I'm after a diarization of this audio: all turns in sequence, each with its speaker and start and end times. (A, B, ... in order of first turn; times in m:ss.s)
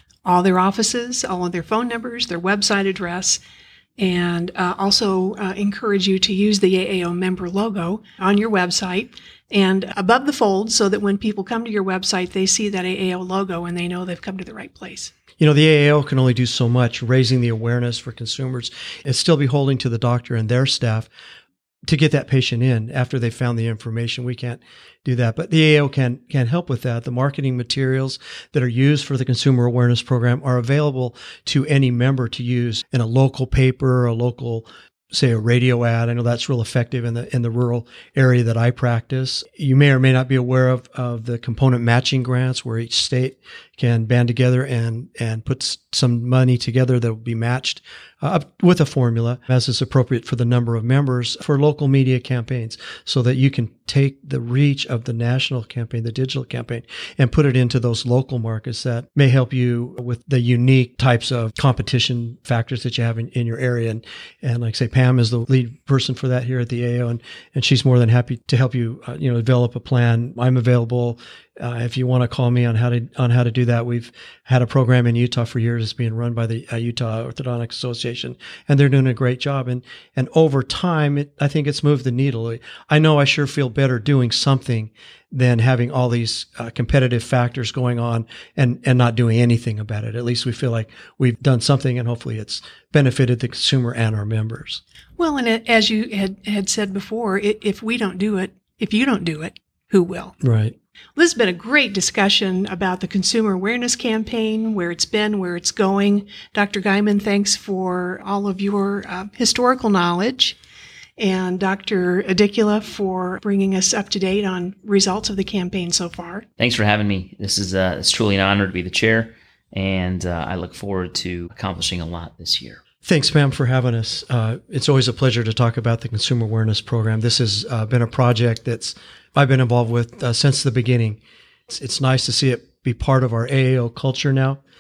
0:00.3-0:03.4 A
0:04.0-0:15.1 A
0:15.4-0:21.1 B
0:21.9-1:34.8 B
1:35.2-1:40.4 A
1:40.4-1:40.8 B
1:41.2-1:50.6 A
1:51.2-1:56.4 A
1:56.6-2:02.8 C
2:03.0-2:14.6 B